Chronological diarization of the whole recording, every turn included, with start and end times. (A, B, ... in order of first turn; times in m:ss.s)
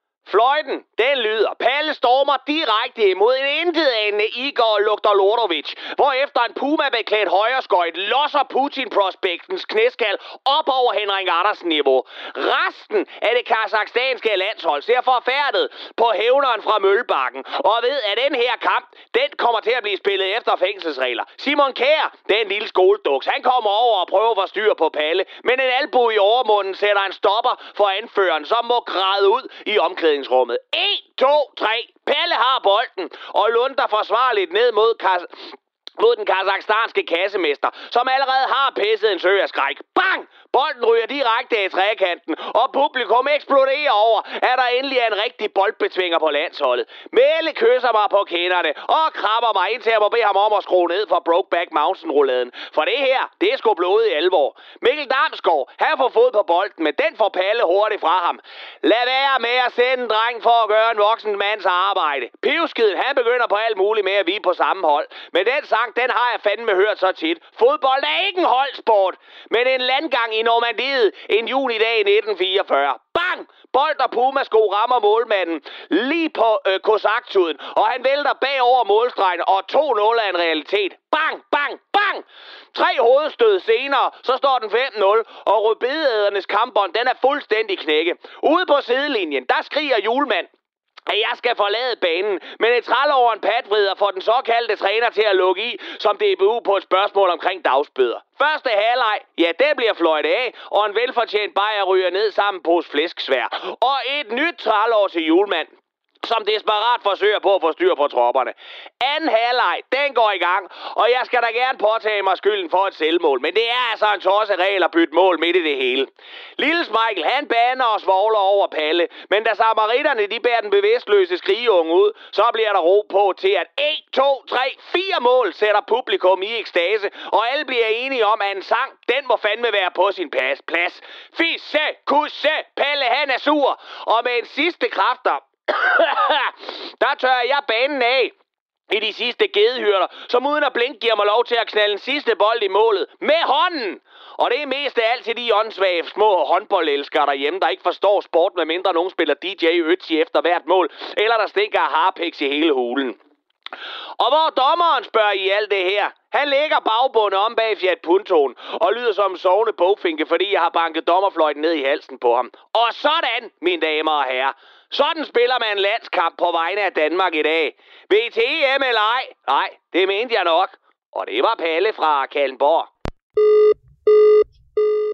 0:00.2-1:30.5 A
1:31.1-1:45.7 A
1:46.2-2:18.3 A
2:18.9-2:33.2 A
2:34.2-2:52.9 A